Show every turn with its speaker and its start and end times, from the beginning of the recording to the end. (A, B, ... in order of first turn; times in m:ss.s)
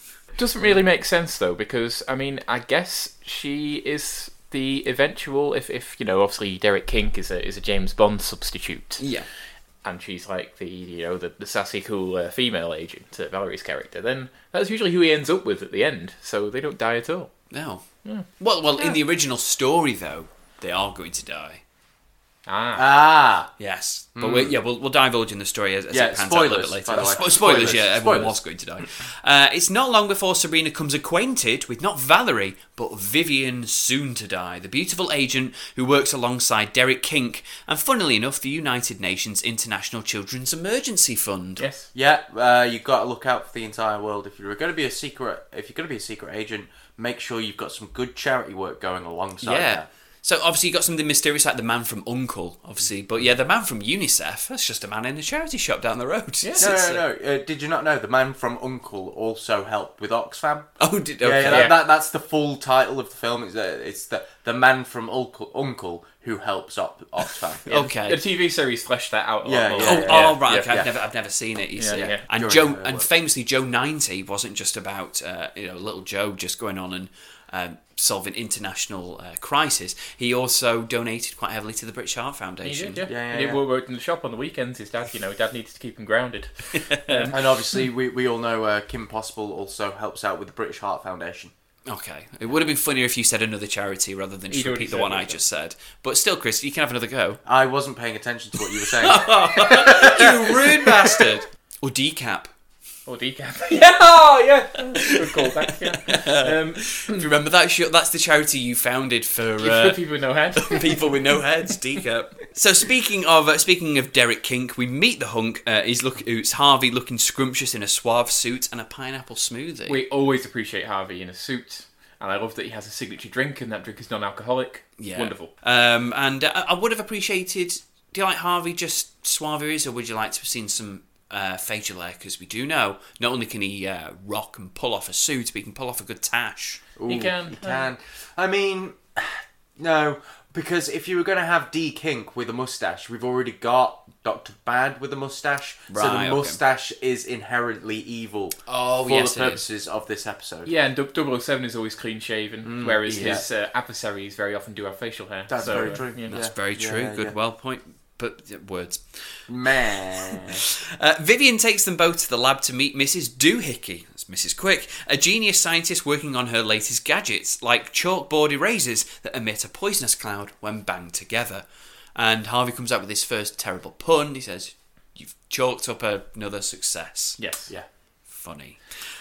0:00.4-0:09.0 A
0:09.0-0:09.3 B
0:09.8-0:17.3 A
0:17.5-0:17.8 B
0:18.4-0:21.6 B
0:22.5-0:22.9 A
0:22.8-0:23.5 C
0:23.6-0:41.6 B
0:24.2-0:24.5 C
0:25.9-0:28.4 C
0:41.6-0:41.9 A
0:41.9-0:49.9 C
0:49.4-0:57.0 B
0:56.4-0:56.7 A
0:56.6-1:00.7 C
1:00.8-1:01.7 B
1:01.2-1:07.7 C
1:01.5-1:01.8 A
1:07.7-1:10.8 A
1:07.7-1:08.2 B
1:09.4-1:10.9 C
1:09.8-1:23.1 B
1:11.8-1:12.2 A
1:11.9-1:13.1 C
1:22.6-1:27.4 A
1:23.1-1:23.6 C
1:26.7-1:27.3 B
1:27.3-1:31.5 C
1:31.9-1:37.4 B
1:34.5-1:35.4 A
1:37.4-1:41.2 C
1:38.9-1:42.5 B
1:43.1-1:47.3 A
1:44.9-1:50.0 B
1:49.6-1:51.1 A
1:50.5-2:00.0 B
1:59.9-2:05.5 A
2:05.0-2:16.8 B
2:17.0-2:30.7 C
2:17.1-2:17.9 A
2:25.9-2:26.6 B
2:28.7-2:29.6 B
2:30.7-2:36.4 A
2:32.6-2:33.4 C
2:33.1-2:33.4 B
2:35.5-2:37.4 C
2:35.8-2:39.0 B
2:39.5-2:40.6 C
2:40.0-2:57.4 B
2:57.4-2:57.7 A
2:58.3-2:58.8 B